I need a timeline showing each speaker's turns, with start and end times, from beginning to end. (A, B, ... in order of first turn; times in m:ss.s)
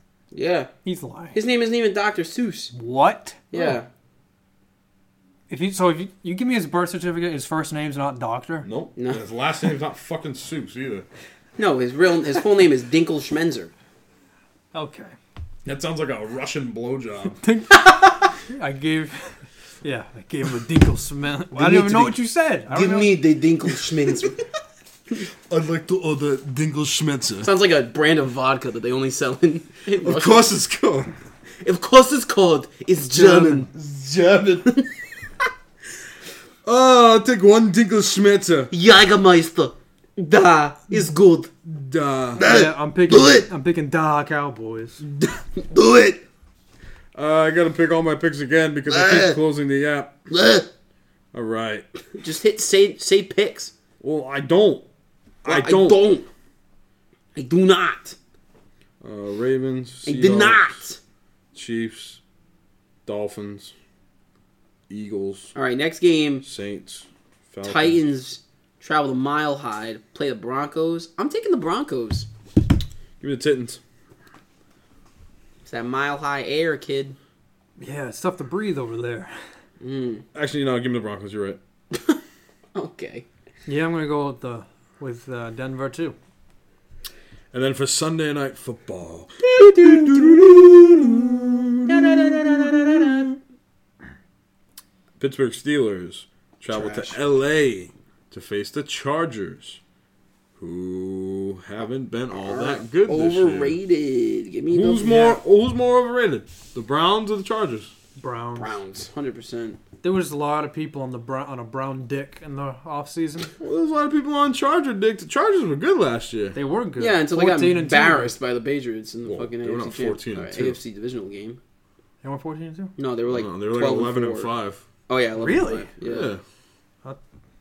0:00.3-0:00.7 A
0:00.8-0:01.4 B
0:01.3-0:02.7 A
0:02.7-0:03.8 B
0:03.5-0:03.9 A
0:05.5-0:08.7 B
0:08.6-0:11.0 C
0:09.0-0:09.2 A
0:11.6-0:13.7 A
0:14.7-0:15.1 B
0:15.6-0:17.4 C
0:17.4-0:19.3 B
0:19.8-0:23.2 B
0:21.5-0:22.2 A
0:22.7-0:24.4 A
0:25.5-0:27.5 C
0:27.4-0:30.6 A
0:30.0-0:31.1 C
0:31.6-0:33.7 A
0:33.1-0:34.8 C
0:36.6-0:38.7 C
0:38.7-0:41.6 A
0:41.6-0:42.4 C
0:42.4-0:43.5 A
0:42.4-0:45.0 B
0:45.0-0:46.2 A
0:47.1-0:50.2 C
0:48.9-0:49.4 A
0:50.3-0:50.7 A
0:51.3-0:51.9 C
0:52.1-0:53.7 A
0:54.0-0:54.8 C
0:55.4-0:56.0 C
0:55.4-0:56.3 A
0:57.3-0:58.2 A
0:59.0-1:00.8 C
1:00.0-1:01.0 A
1:01.5-1:02.2 C
1:03.0-1:03.7 C
1:04.9-1:05.5 C
1:05.5-1:06.4 A
1:06.4-1:08.0 C
1:07.6-1:12.3 A
1:13.2-1:13.8 C
1:15.6-1:17.2 A
1:17.8-1:19.3 B
1:19.8-1:20.2 A
1:20.3-1:21.6 C
1:21.9-1:22.2 A
1:22.7-1:23.2 A
1:23.6-1:26.1 B
1:27.5-1:32.4 C
1:29.6-1:30.4 A
1:31.9-1:33.3 A
1:35.2-1:39.8 C
1:36.7-1:37.2 A
1:40.6-1:43.8 C
1:42.3-1:45.3 A
1:44.7-1:47.9 C
1:48.2-1:48.8 B
1:48.6-1:49.8 A
1:50.0-1:53.5 B
1:53.6-1:56.6 C
1:56.5-1:58.3 B
1:57.0-2:01.6 A
1:59.2-2:00.8 C
2:02.2-2:02.9 B
2:03.0-2:04.5 A
2:03.3-2:04.8 C
2:05.1-2:06.3 A
2:05.4-2:05.9 B
2:06.0-2:06.4 C